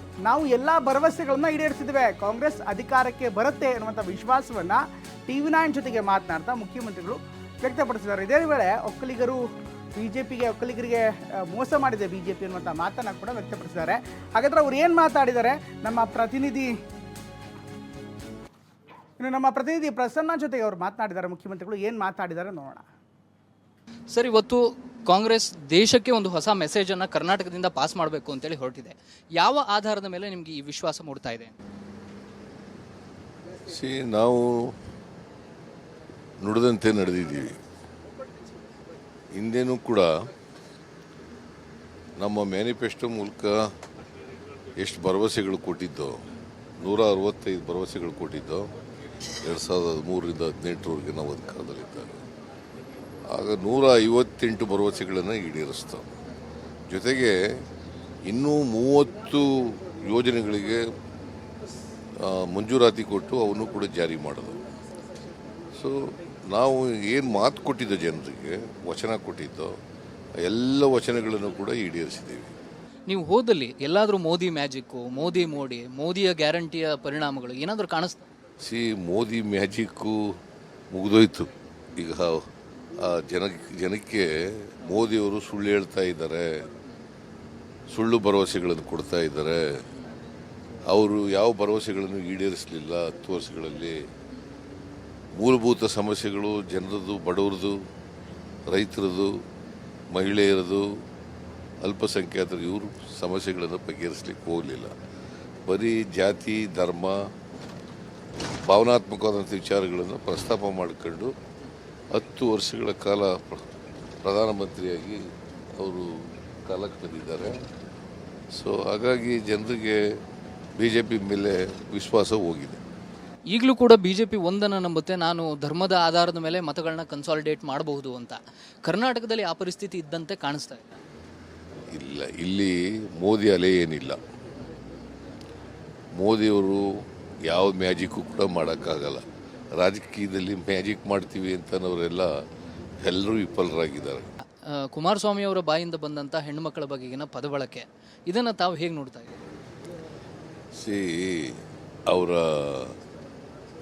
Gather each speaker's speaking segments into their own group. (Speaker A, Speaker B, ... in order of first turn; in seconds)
Speaker A: 0.2-9.4, 10.0-16.7, 19.2-22.8
Speaker B: 24.1-31.5, 73.1-78.2, 123.5-130.9, 144.7-149.4
Speaker C: 33.6-34.7, 36.4-37.6, 39.3-40.1, 42.2-43.7, 44.8-46.2, 46.8-48.7, 49.4-52.2, 53.3-56.1, 56.9-57.4, 58.2-60.9, 62.2-64.6, 65.7-69.7, 70.4-72.5, 78.6-80.3, 80.9-82.4, 83.0-86.6, 87.9-89.8, 90.8-94.0, 95.3-97.8, 98.7-99.4, 100.1-100.9, 101.8-104.9, 105.7-107.2, 108.7-111.3, 112.1-113.7, 114.2-115.2, 115.8-117.6, 118.5-120.0, 120.8-122.8, 131.9-134.2, 136.1-142.3, 143.0-144.3, 150.7-153.0